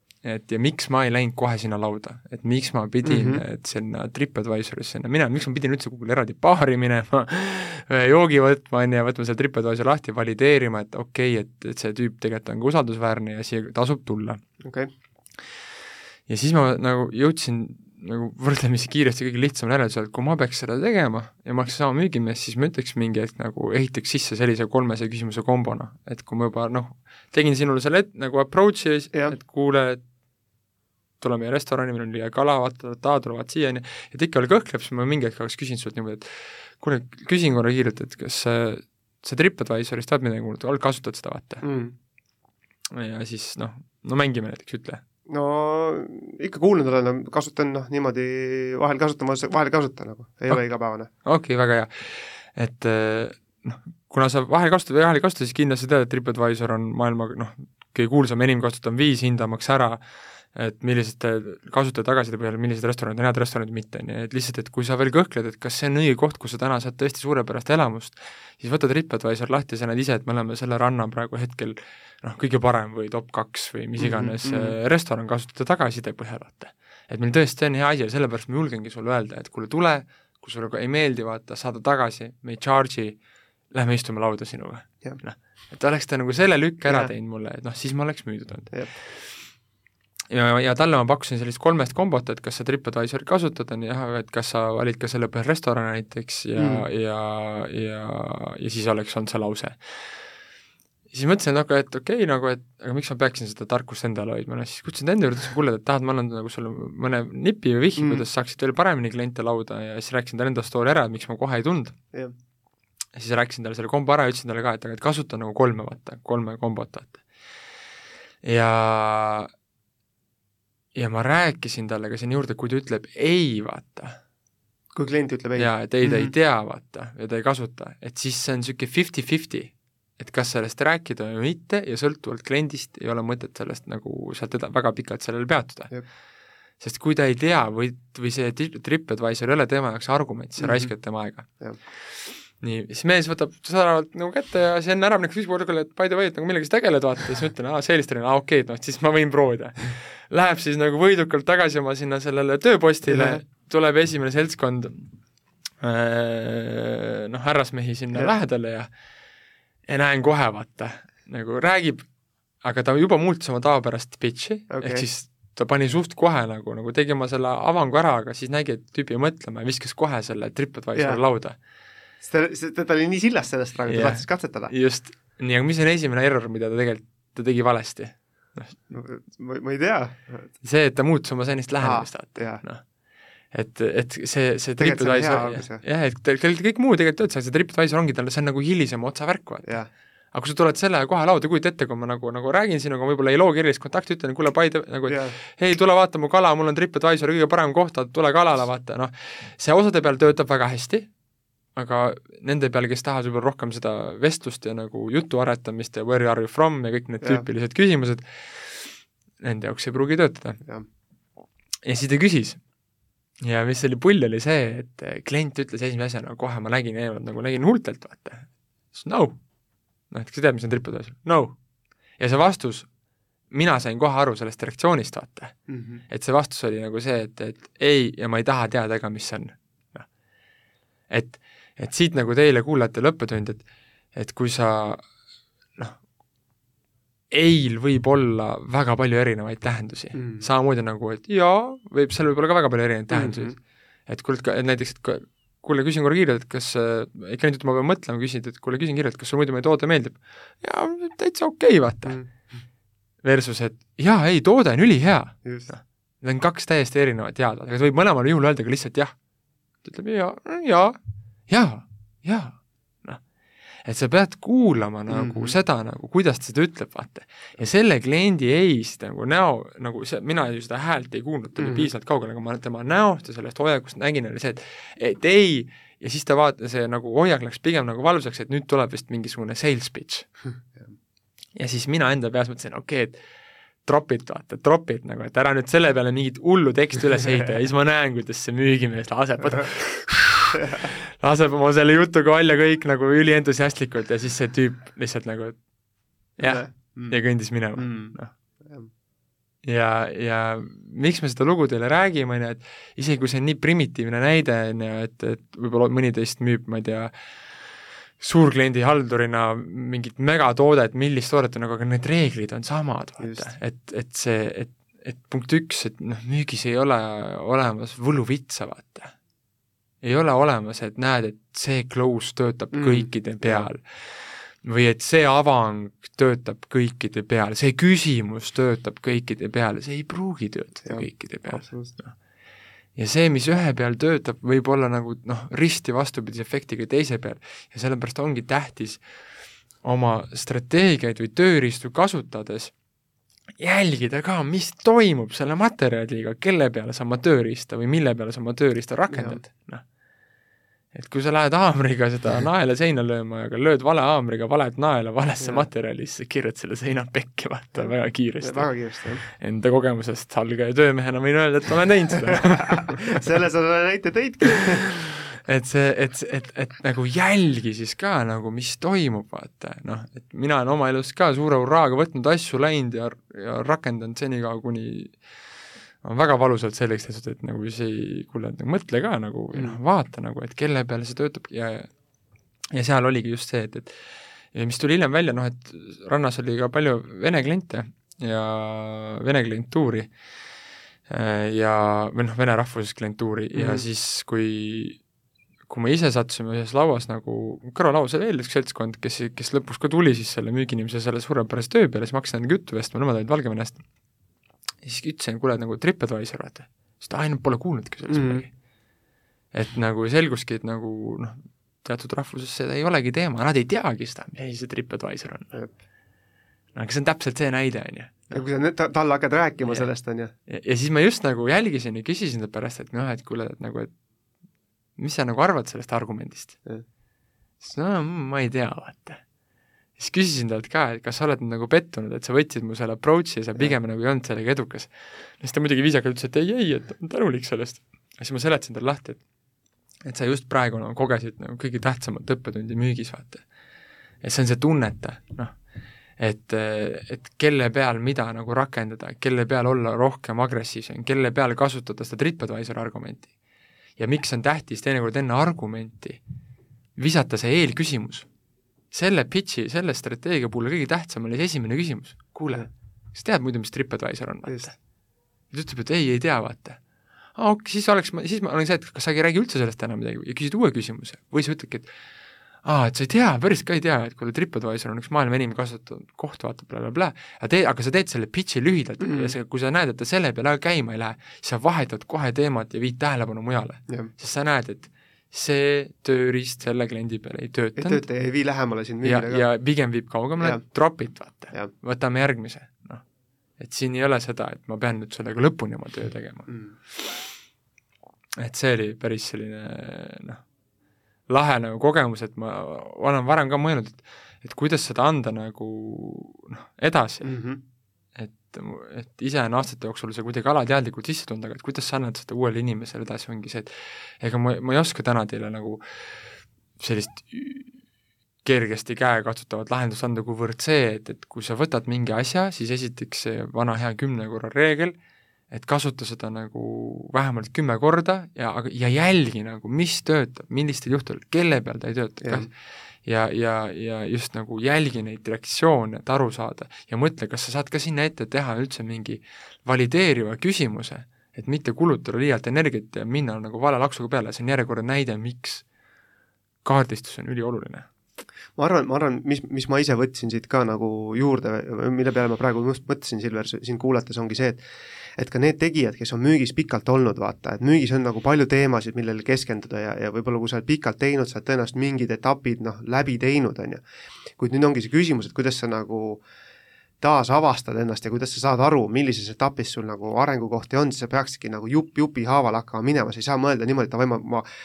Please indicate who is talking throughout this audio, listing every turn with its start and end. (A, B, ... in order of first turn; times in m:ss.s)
0:00.2-0:14.4 A
0:03.0-0:03.4 B
0:14.6-0:14.9 B
0:16.3-0:30.0 A
0:31.2-0:41.6 A
0:41.6-0:41.9 B
0:42.9-0:45.0 A
0:45.3-0:51.1 B
0:51.2-1:00.0 A
1:00.5-1:23.2 A
1:14.0-1:14.8 B
1:23.7-1:29.4 A
1:26.8-1:27.1 B
1:30.3-1:40.2 A
1:36.6-1:36.8 B
1:41.1-1:52.0 A
1:48.0-1:48.2 B
1:53.1-1:57.2 A
1:58.4-1:59.5 A
2:00.9-2:04.2 A
2:04.9-2:06.3 B
2:05.6-2:15.9 A
2:16.8-2:35.1 A
2:20.6-2:20.9 B
2:33.1-2:33.4 B
2:35.8-2:38.9 A
2:39.9-2:42.1 A
2:42.6-2:51.6 A
2:44.7-2:45.0 B
2:52.2-2:54.7 B
2:53.9-2:58.8 A
2:58.9-3:00.5 B
3:00.6-3:02.8 A
3:01.8-3:02.6 B
3:03.5-3:09.8 A
3:04.8-3:05.8 B
3:10.3-3:21.1 A
3:15.1-3:15.4 B
3:21.7-3:30.6 A
3:31.8-3:32.6 A
3:33.4-3:39.4 A
3:40.1-3:41.6 A
3:42.2-3:42.9 A
3:43.5-3:50.0 A
3:45.7-3:46.0 B
3:51.1-3:55.0 A
3:57.3-4:12.2 A
4:00.1-4:00.5 B
4:03.1-4:03.5 B
4:13.2-4:19.1 A
4:19.8-4:21.0 A
4:21.5-4:23.2 A
4:23.8-4:40.3 A
4:25.1-4:25.6 B
4:31.6-4:31.9 B
4:41.6-4:43.2 A
4:43.8-4:55.6 A
4:50.6-4:50.8 B
4:56.4-4:58.3 A
4:56.4-4:58.9 B
4:59.6-5:07.3 A
5:08.2-5:19.1 A
5:13.2-5:13.5 B
5:20.0-5:32.1 A
5:22.7-5:23.7 B
5:30.8-5:31.9 B
5:32.9-5:39.0 A
5:39.8-5:42.7 A
5:43.6-5:49.8 A
5:49.1-5:49.4 B
5:50.9-5:58.7 A
5:55.4-5:55.6 B
5:58.4-5:59.2 B
5:59.2-6:03.2 A
6:02.3-6:04.9 B
6:04.9-6:15.2 A
6:16.0-6:21.9 A
6:22.7-6:30.1 A
6:31.1-6:35.0 A
6:33.5-6:33.8 B
6:35.7-6:43.8 A
6:44.8-6:48.5 A
6:48.1-6:48.4 B
6:49.5-6:55.5 A
6:56.7-6:58.4 A
6:58.3-7:00.3 B
7:00.5-7:03.9 A
7:05.0-7:06.6 A
7:07.6-7:09.2 A
7:10.0-7:19.2 A
7:20.0-7:23.4 A
7:24.2-7:25.5 A
7:26.2-7:33.3 A
7:34.0-7:36.2 A
7:37.0-7:38.3 A
7:38.9-7:44.7 A
7:45.5-7:46.8 A
7:47.4-7:51.9 A
7:52.6-8:08.0 A
7:59.0-7:59.3 B
8:07.8-8:09.4 B
8:09.0-8:13.0 A
8:13.6-8:17.2 A
8:16.5-8:16.7 B
8:18.4-8:20.4 A
8:21.3-8:27.3 A
8:27.2-8:27.6 B
8:28.2-8:35.8 A
8:36.8-8:37.7 A
8:38.4-8:45.0 A
8:45.5-8:52.5 A
8:53.0-9:05.6 A
9:06.6-9:07.9 A
9:08.6-9:14.6 B
9:15.2-9:23.8 B
9:24.4-9:26.2 B
9:27.0-9:34.5 B